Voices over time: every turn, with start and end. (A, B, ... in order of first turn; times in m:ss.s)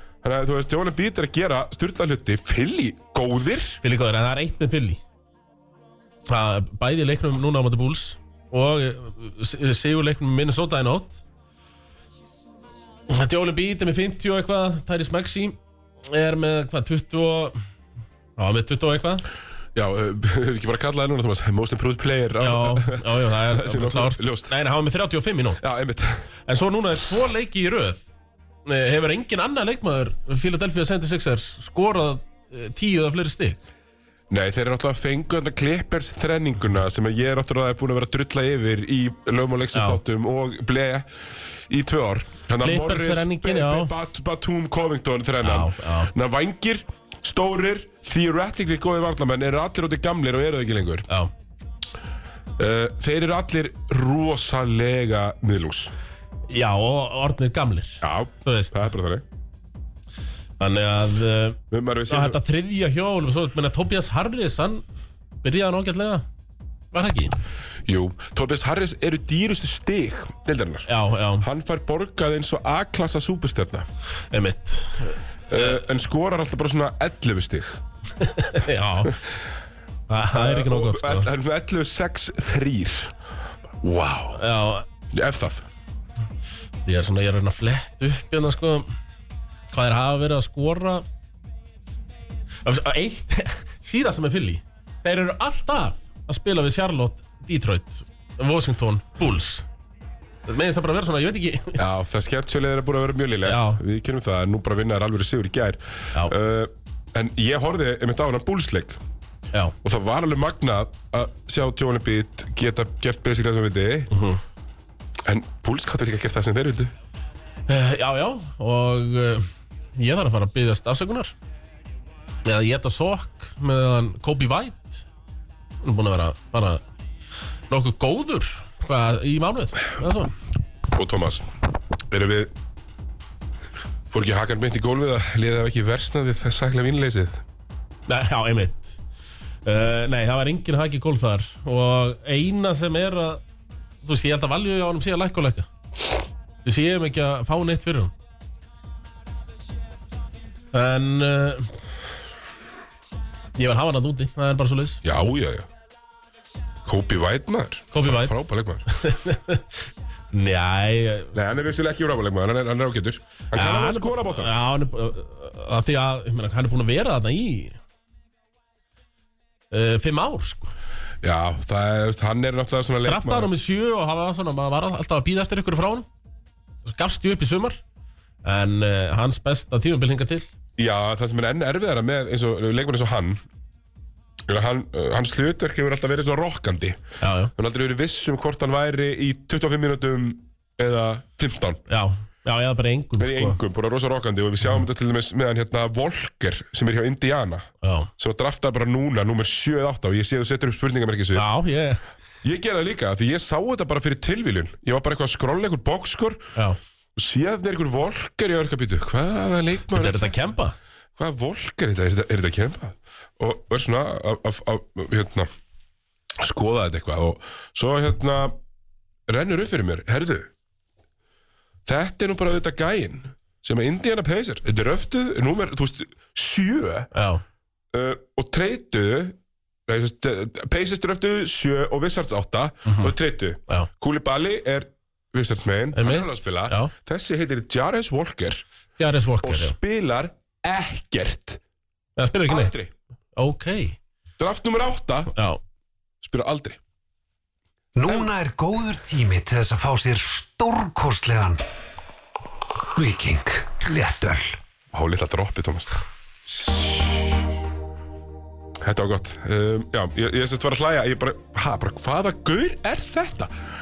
0:00.2-0:03.8 A
0:03.8-0:05.0 B
0:06.3-0:11.2 B
0:13.1-0:17.6 B
0:18.4-0:19.3 B
0:19.8-0:24.5 A
0:22.4-0:25.6 B
0:25.6-0:26.2 A
0:26.5-0:28.0 B
0:28.7-0:33.6 B
0:34.3-0:51.1 A
0:39.7-0:40.0 B
0:42.6-0:43.9 B
0:45.4-0:46.1 B
0:52.6-0:55.9 A
0:56.5-0:58.8 B
0:58.0-0:59.2 A
1:00.6-1:04.8 B
1:01.7-1:02.4 A
1:05.4-1:06.3 B
1:06.9-1:07.4 B
1:07.9-1:10.9 A
1:10.9-1:11.5 B
1:11.4-1:13.9 A
1:14.3-1:15.8 B
1:15.5-1:17.8 A
1:18.2-1:19.2 B
1:19.0-1:19.4 A
1:20.1-1:21.3 B
1:20.3-1:23.1 A
1:23.8-1:24.4 A
1:24.4-1:24.9 B
1:25.1-1:25.6 A
1:26.8-1:28.9 B
1:29.7-1:31.0 B
1:32.6-1:39.6 B
1:40.5-1:41.8 B
1:41.8-1:49.0 A
1:43.4-1:43.8 B
1:49.8-1:54.1 A
1:54.1-1:54.4 B
1:55.2-1:56.9 A
1:57.7-2:01.3 B
2:02.4-2:05.1 B
2:05.8-2:06.8 B
2:07.7-2:10.3 B
2:10.9-2:11.5 A
2:12.1-2:12.5 A
2:14.1-2:17.4 A
2:18.1-2:19.0 B
2:19.6-2:23.4 B
2:24.0-2:25.7 B
2:26.6-2:28.1 B
2:30.7-2:31.7 B
2:33.6-2:35.0 B
2:35.0-2:35.7 A
2:36.8-2:38.8 A
2:37.9-2:38.4 B
2:38.9-2:41.4 B
2:41.3-2:44.5 A
2:43.6-2:47.8 B
2:49.7-2:50.7 B
2:51.2-2:53.5 A
2:53.0-2:56.1 B
2:56.8-2:57.8 B
2:58.4-3:00.5 B
3:00.8-3:03.4 A
3:04.5-3:07.0 A
3:07.2-3:07.5 B
3:07.6-3:11.8 A
3:11.9-3:13.6 B
3:13.2-3:21.5 A
3:17.8-3:18.1 B
3:21.3-3:22.0 B
3:22.4-3:26.5 A
3:27.2-3:30.5 A
3:29.9-3:30.8 B
3:31.2-3:35.5 A
3:36.4-3:38.6 A
3:39.3-3:40.5 A
3:41.9-3:47.1 A
3:47.1-3:47.4 B
3:47.9-3:58.6 A
3:56.0-3:56.9 B
3:59.0-3:59.8 B
3:59.4-4:01.6 A
4:02.2-4:02.7 B
4:02.5-4:02.9 A
4:03.4-4:04.0 B
4:04.4-4:05.3 A
4:05.3-4:05.6 B
4:06.2-4:06.8 A
4:08.0-4:11.6 C
4:13.0-4:14.6 C
4:14.9-4:15.9 A
4:18.8-4:23.5 A